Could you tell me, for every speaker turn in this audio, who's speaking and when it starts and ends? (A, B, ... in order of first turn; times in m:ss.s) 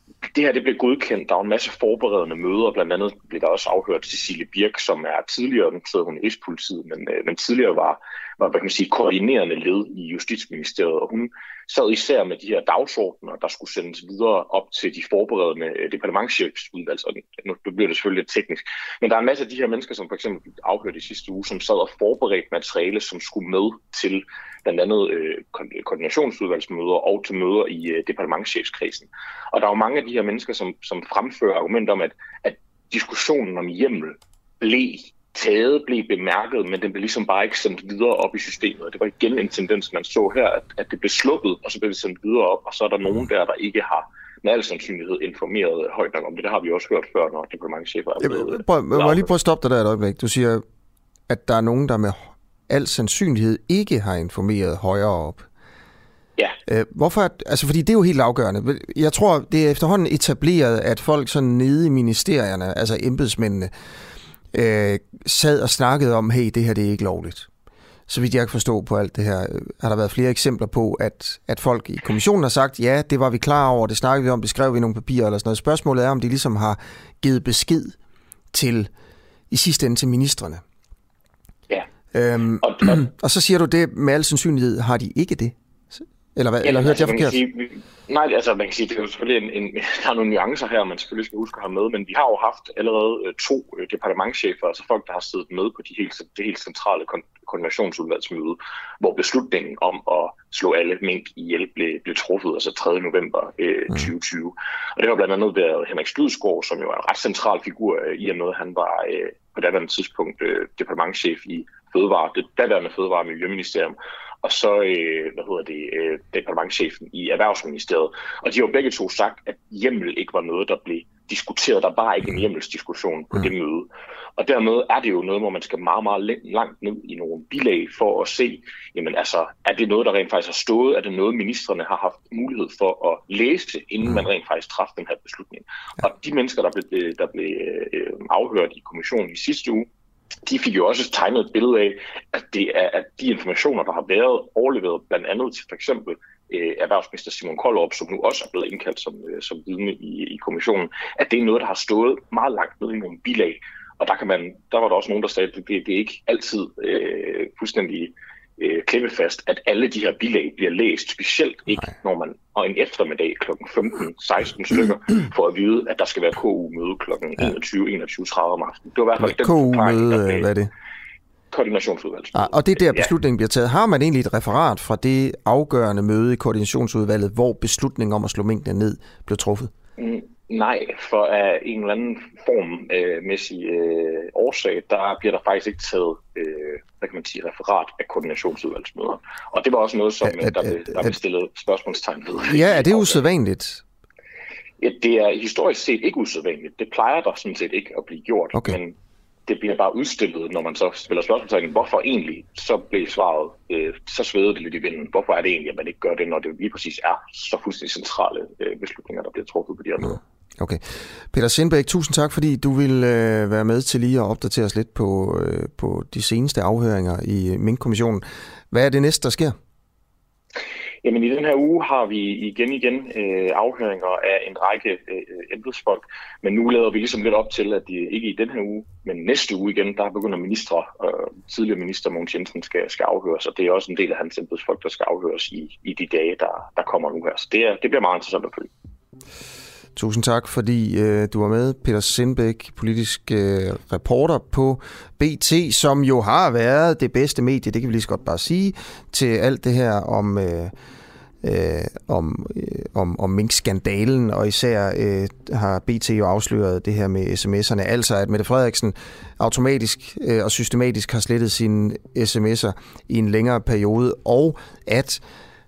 0:00.3-0:49.3 A
0:48.2-0:50.6 B
0:51.3-0:55.5 B
0:56.7-1:03.7 B
1:04.5-1:07.5 B
1:08.1-1:18.0 B
1:18.5-1:18.9 B
1:19.5-1:20.6 B
1:22.1-1:25.6 B
1:22.6-1:23.0 A
1:26.4-1:27.4 B
1:26.6-2:19.9 A
2:20.4-2:50.5 A
2:49.2-2:50.7 B
2:51.5-2:53.1 A
2:52.3-2:59.7 B
3:00.0-3:13.2 A
3:10.2-3:11.2 B
3:12.5-3:13.8 B
3:14.8-3:19.0 A
3:19.5-3:30.2 A
3:30.6-3:39.6 B
3:41.0-3:58.7 A
4:00.0-4:10.7 B
4:11.4-4:25.2 B